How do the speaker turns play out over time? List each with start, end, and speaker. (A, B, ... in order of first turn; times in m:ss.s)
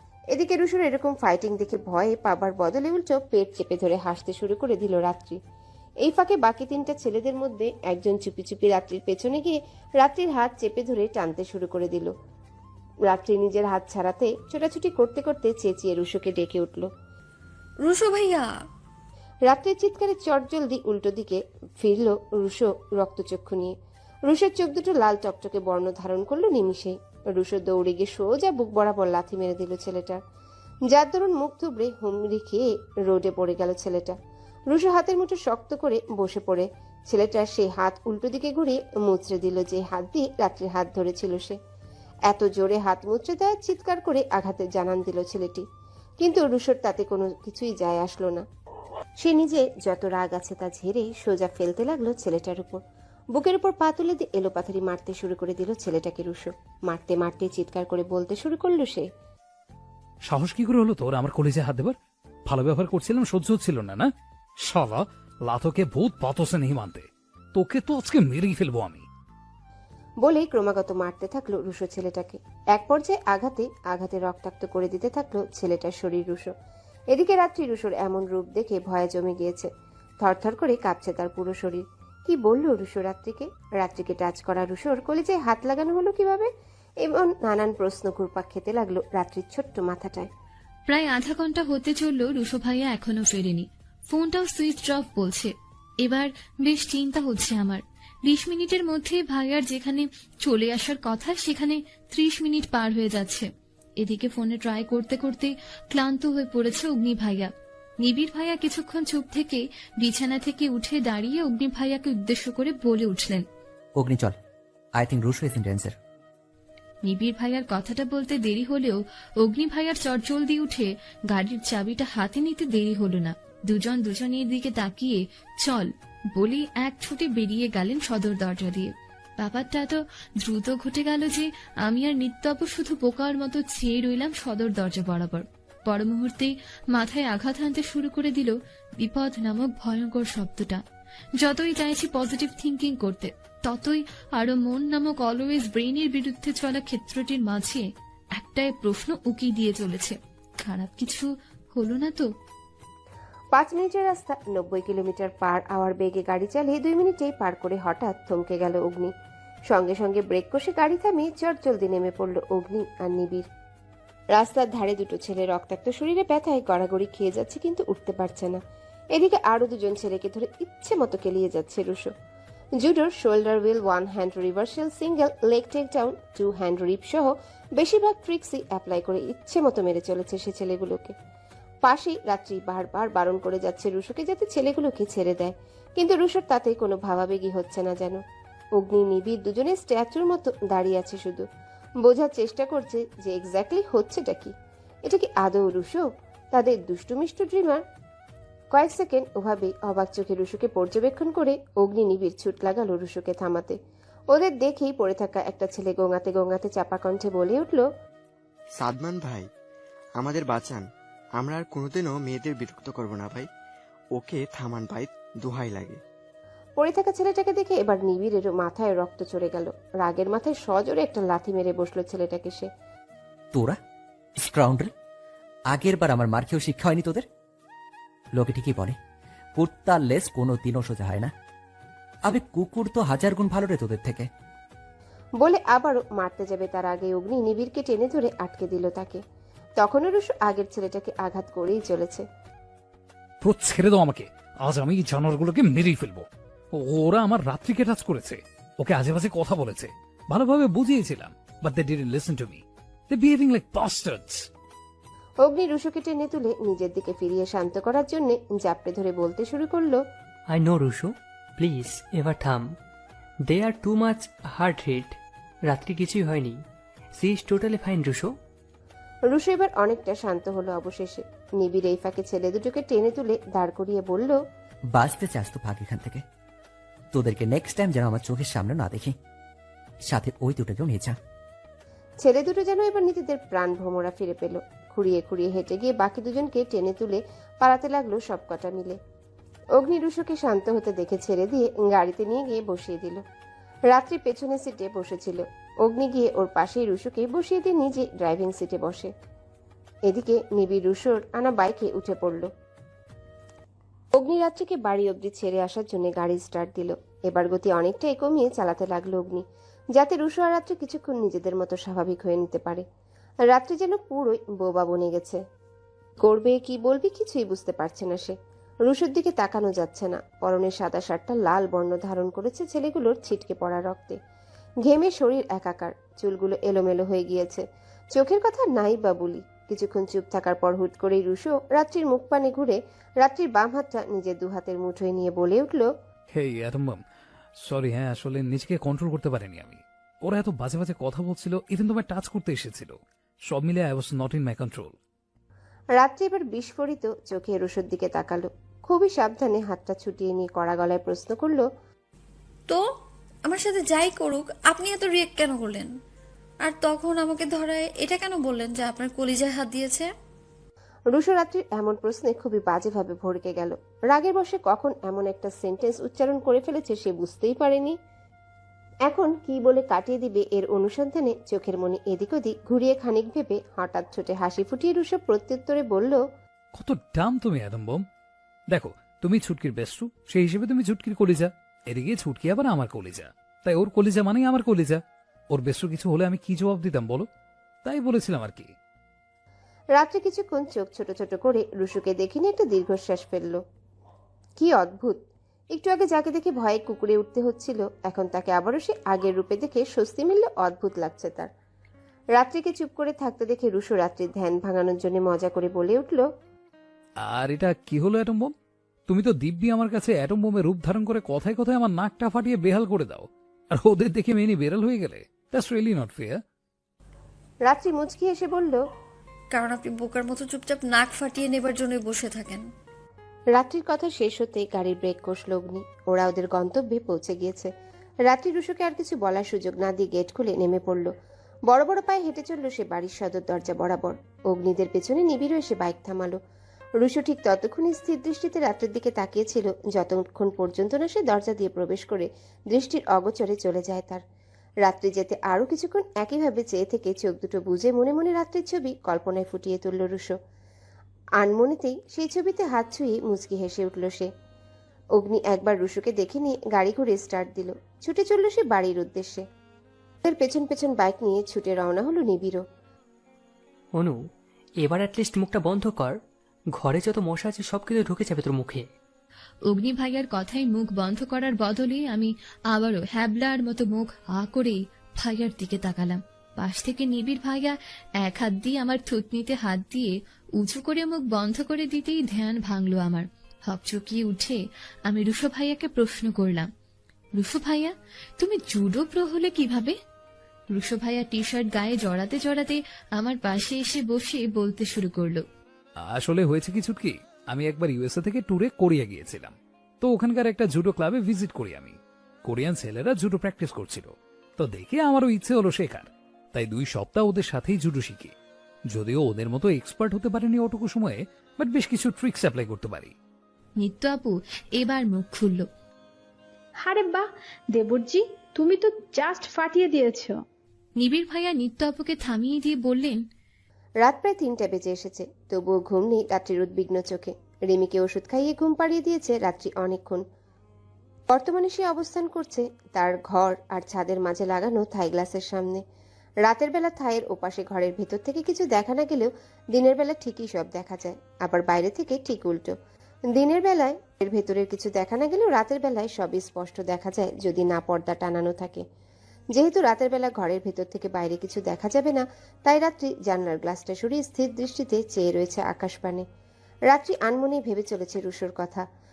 0:00.3-0:05.4 A
0:06.0-0:12.1 A
0:13.0-0:16.9 A
0:17.8-0:18.6 B
0:19.5-0:23.7 A
0:24.3-0:30.2 A
0:30.9-0:34.1 A
0:34.7-0:41.6 A
0:42.3-0:45.6 A
0:46.2-0:48.4 A
0:49.2-0:52.8 A
0:53.3-0:59.0 A
1:00.2-1:01.9 C
1:02.4-1:04.1 C
1:04.6-1:09.0 C
1:10.2-1:16.5 A
1:17.1-1:19.7 A
1:20.2-1:26.5 A
1:27.0-1:30.3 A
1:30.9-1:43.5 D
1:44.0-1:47.5 D
1:48.0-1:53.4 D
1:54.0-1:54.3 E
1:55.0-1:55.9 E
1:57.0-2:20.8 D
2:21.4-2:32.3 D
2:33.5-2:39.1 A
2:39.7-2:43.4 A
2:44.3-2:48.6 A
2:49.1-2:52.1 A
2:52.8-3:01.1 A
3:01.8-3:08.2 A
3:08.8-3:11.4 A
3:12.0-3:14.5 A
3:15.0-3:17.8 A
3:18.7-3:23.8 A
3:24.3-3:27.8 A
3:28.7-3:29.5 F
3:30.2-3:33.5 F
3:34.1-3:36.0 F
3:36.8-3:42.7 A
3:44.4-3:44.9 E
3:45.7-3:47.2 E
3:48.3-3:49.0 E
3:49.6-3:51.3 E
3:52.2-3:54.3 E
3:55.4-3:59.2 A
3:59.8-4:02.2 A
4:03.4-4:14.4 C
4:15.4-4:20.0 A
4:20.5-4:22.8 G
4:23.4-4:26.6 G
4:27.2-4:28.3 G
4:29.3-4:34.4 A
4:34.9-4:36.2 E
4:37.1-4:39.1 E
4:40.1-4:41.2 E
4:42.2-4:49.0 A
4:49.7-4:53.2 A
4:53.9-4:59.1 A
5:00.0-5:02.5 A
5:04.1-5:12.8 A
5:13.5-5:15.4 A
5:16.2-5:24.2 A
5:24.8-5:35.9 A
5:36.3-5:37.0 C
5:37.6-5:42.9 C
5:43.4-5:44.9 C
5:46.0-5:51.6 A
5:53.4-5:55.9 B
5:56.6-6:00.1 B
6:01.1-6:07.9 A
6:09.0-6:16.2 A
6:16.7-6:18.0 C
6:18.7-6:25.0 C
6:25.5-6:27.3 C
6:27.8-6:28.7 C
6:29.9-6:33.6 A
6:34.6-6:35.2 A
6:35.7-6:41.5 A
6:42.4-6:46.3 A
6:47.2-6:48.5 C
6:49.1-6:56.4 C
6:57.6-6:58.8 A
6:59.5-7:02.7 B
7:03.5-7:07.7 A
7:08.2-7:11.1 A
7:11.7-7:16.4 A
7:17.0-7:24.2 A
7:24.8-7:30.3 A
7:31.4-7:34.3 A
7:35.2-7:39.4 A
7:40.2-7:42.6 A
7:43.9-7:44.2 G
7:44.8-7:46.2 G
7:46.7-7:48.9 G
7:49.7-8:06.7 D
8:07.4-8:09.9 D
8:10.7-8:15.4 D
8:16.0-8:28.3 C
8:28.9-8:33.1 C
8:33.8-8:35.6 D
8:36.8-8:40.4 H
8:41.0-8:43.2 D
8:44.0-8:50.2 A
8:51.3-8:55.8 A
8:56.4-9:02.7 A
9:03.3-9:08.8 A
9:09.5-9:16.2 A
9:16.9-9:18.8 A